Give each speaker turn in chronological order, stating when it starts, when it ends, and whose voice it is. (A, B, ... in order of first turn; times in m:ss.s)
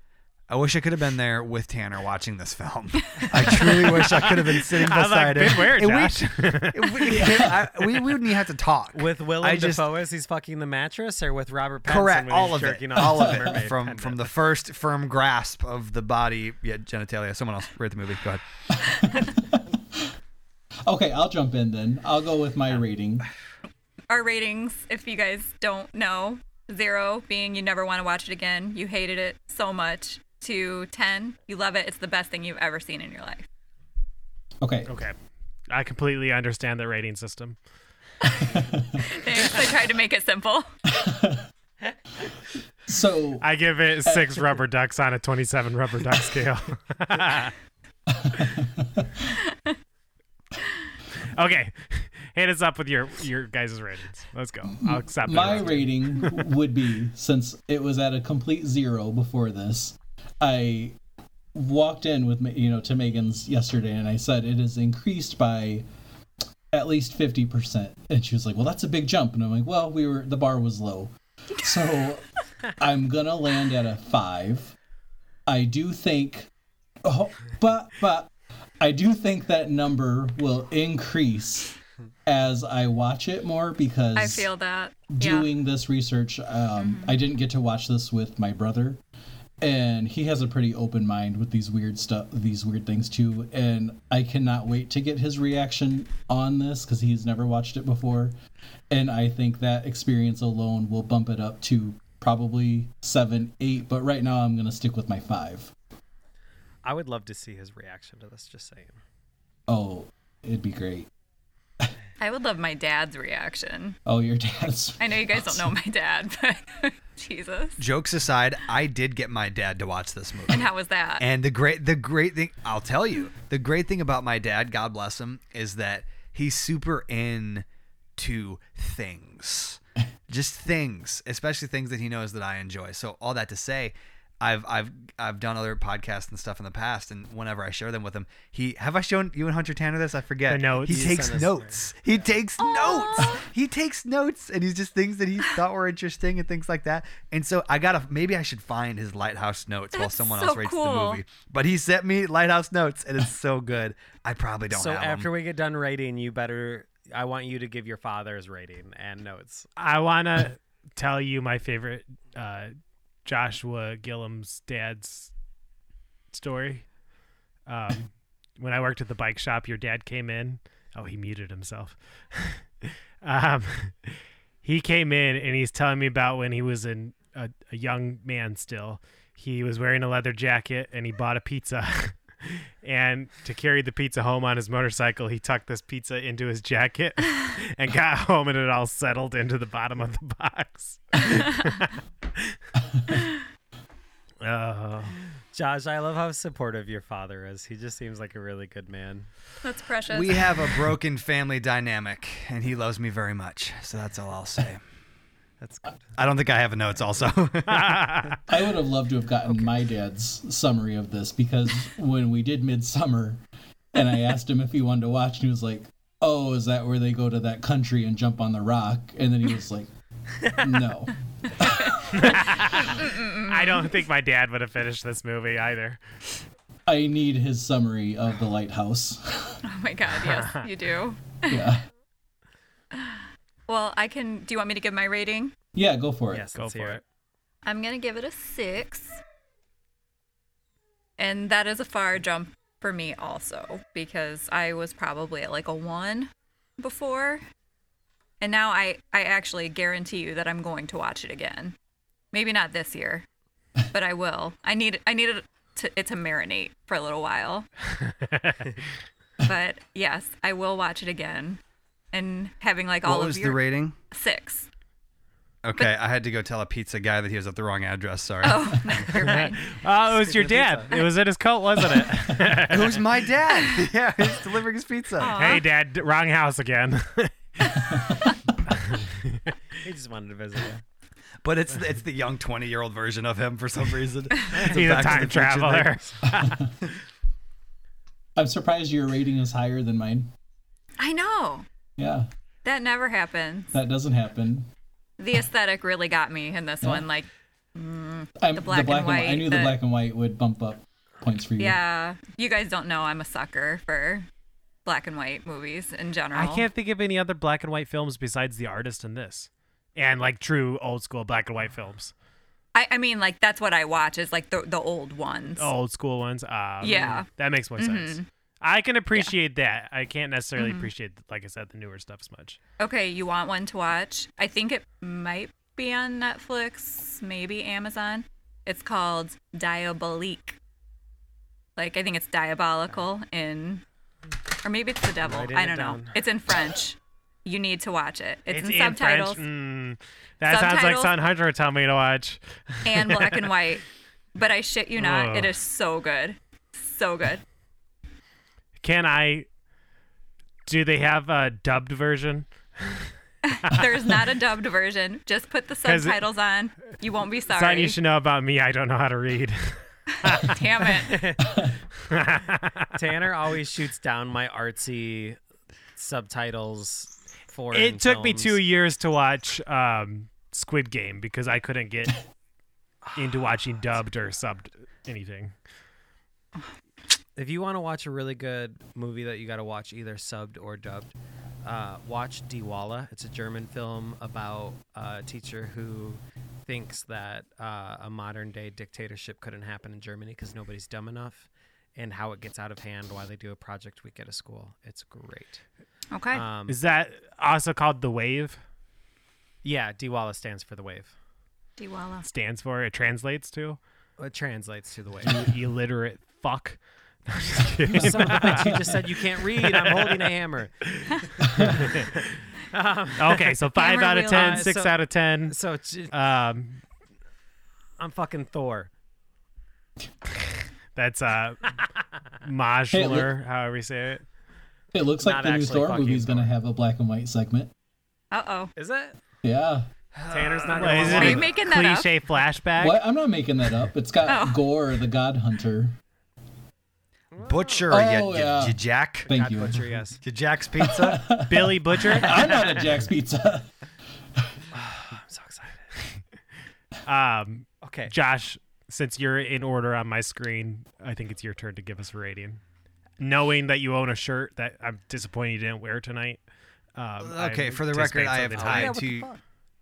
0:00.5-0:09.8 A
0:03.7-0:07.4 B
0:08.9-0:14.4 C
0:11.9-0:18.4 A
0:13.0-0:13.6 D
0:19.2-0:20.1 D
0:20.9-0:23.3 D
0:24.1-0:33.4 E
0:34.6-0:34.9 D
0:34.9-0:35.2 B
0:35.7-0:37.6 B
0:38.2-0:40.7 E
0:38.5-0:39.1 D
0:40.9-0:41.4 D
0:42.9-0:43.4 D
0:43.4-0:47.5 B
0:44.0-0:44.6 D
0:48.1-0:49.3 D
0:49.4-0:49.7 E
0:51.2-0:55.8 B
0:54.7-1:01.0 D
1:01.5-1:05.8 D
1:06.7-1:14.7 D
1:15.5-1:16.5 D
1:17.0-1:24.5 D
1:24.2-1:25.5 E
1:25.1-1:29.0 D
1:26.8-1:27.2 E
1:29.6-1:38.3 D
1:38.9-1:45.7 D
1:46.8-1:49.0 C
1:49.7-1:51.1 D
1:52.2-1:54.0 E
1:54.0-1:55.7 D
1:55.0-1:57.8 E
1:57.8-2:07.6 A
2:00.5-2:01.2 E
2:08.2-2:35.3 A
2:20.5-2:21.3 B
2:20.9-2:22.3 C
2:22.6-2:23.4 E
2:29.9-2:31.2 E
2:34.7-2:39.7 C
2:39.8-2:42.7 B
2:43.2-2:45.3 B
2:46.3-2:46.8 B
2:47.6-3:12.6 B
3:14.4-3:15.2 B
3:15.5-3:19.3 C
3:19.6-3:20.6 E
3:20.1-3:24.8 A
3:25.6-3:26.1 C
3:26.1-3:28.4 A
3:27.9-3:28.3 B
3:28.5-3:33.4 D
3:29.5-3:29.7 C
3:33.9-3:39.9 D
3:40.5-3:42.3 D
3:41.7-3:44.0 E
3:42.1-3:46.0 B
3:46.9-3:49.6 D
3:49.6-3:51.7 E
3:50.2-3:50.7 B
3:51.5-3:51.8 D
3:52.9-3:55.5 E
3:55.7-3:56.5 D
3:56.3-3:57.0 C
3:56.6-3:57.0 B
3:57.6-3:59.2 E
4:01.2-4:07.4 E
4:08.4-4:11.7 E
4:12.3-4:13.2 E
4:13.9-4:17.7 E
4:18.0-4:18.8 B
4:19.4-4:21.6 E
4:22.1-4:24.7 E
4:23.0-4:24.0 A
4:25.6-4:29.2 A
4:28.4-4:29.6 E
4:29.1-4:33.3 B
4:30.1-4:31.1 C
4:32.6-4:35.6 A
4:33.5-4:33.9 E
4:35.2-4:35.6 E
4:35.2-4:38.1 B
4:37.6-4:38.4 E
4:38.7-4:39.6 B
4:39.8-4:40.8 C
4:41.4-4:46.0 A
4:44.5-4:46.6 B
4:46.3-4:46.7 D
4:48.4-4:50.3 D
4:51.0-4:51.6 E
4:52.0-4:52.3 D
4:52.6-4:53.8 E
4:53.7-4:54.7 D
4:55.2-4:59.8 E
4:58.4-5:01.8 D
5:01.6-5:04.3 E
5:04.8-5:06.7 E
5:06.3-5:12.1 B
5:12.8-5:15.7 E
5:15.6-5:22.6 B
5:16.8-5:18.2 E
5:20.6-5:20.9 E
5:22.8-5:30.6 E
5:31.8-5:33.8 E
5:34.6-5:39.4 E
5:35.2-5:36.2 C
5:38.5-5:43.5 B
5:40.4-5:41.2 E
5:42.8-5:47.4 E
5:45.0-5:45.5 B
5:48.8-5:49.5 B
5:50.7-5:53.0 B
5:53.4-5:58.0 E
5:53.6-5:54.1 B
5:55.8-5:56.2 B
5:57.5-6:00.9 B
6:00.2-6:01.3 E
6:01.0-6:01.6 C
6:02.1-6:02.9 B
6:03.0-6:05.4 C
6:06.0-6:08.6 C
6:07.7-6:12.2 B
6:13.0-6:13.8 C
6:13.2-6:15.5 B
6:17.4-6:35.6 C
6:36.1-6:36.4 E
6:36.3-6:36.8 C
6:36.7-6:38.6 B
6:39.6-6:41.1 C
6:41.8-6:42.2 E
6:42.2-6:43.8 B
6:44.2-6:45.3 C
6:45.2-6:49.0 B
6:47.9-6:49.0 D
6:47.9-6:50.8 C
6:49.6-6:50.3 B
6:50.9-6:52.2 B
6:51.5-6:51.8 D
6:51.8-6:56.1 C
6:53.2-6:55.6 B
6:53.8-6:54.7 E
6:56.1-6:56.8 B
6:58.0-6:58.9 C
7:01.0-7:04.2 B
7:02.9-7:03.3 D
7:04.9-7:07.7 D
7:05.2-7:06.5 C
7:08.3-7:08.7 E
7:08.8-7:09.2 C
7:09.4-7:09.9 D
7:10.1-7:11.5 A
7:10.3-7:11.6 C
7:10.8-7:13.0 B
7:11.1-7:12.1 E
7:12.8-7:16.0 D
7:14.2-7:14.6 E
7:17.3-7:17.9 C
7:17.4-7:19.3 A
7:17.9-7:19.9 D
7:19.2-7:20.2 C
7:20.2-7:21.3 A
7:20.8-7:23.7 D
7:21.4-7:22.6 B
7:22.2-7:22.9 C
7:24.7-7:25.9 C
7:27.0-7:32.6 B
7:27.8-7:28.1 C
7:33.2-7:36.4 B
7:37.0-7:39.0 B
7:37.2-7:39.3 A
7:38.5-7:39.4 C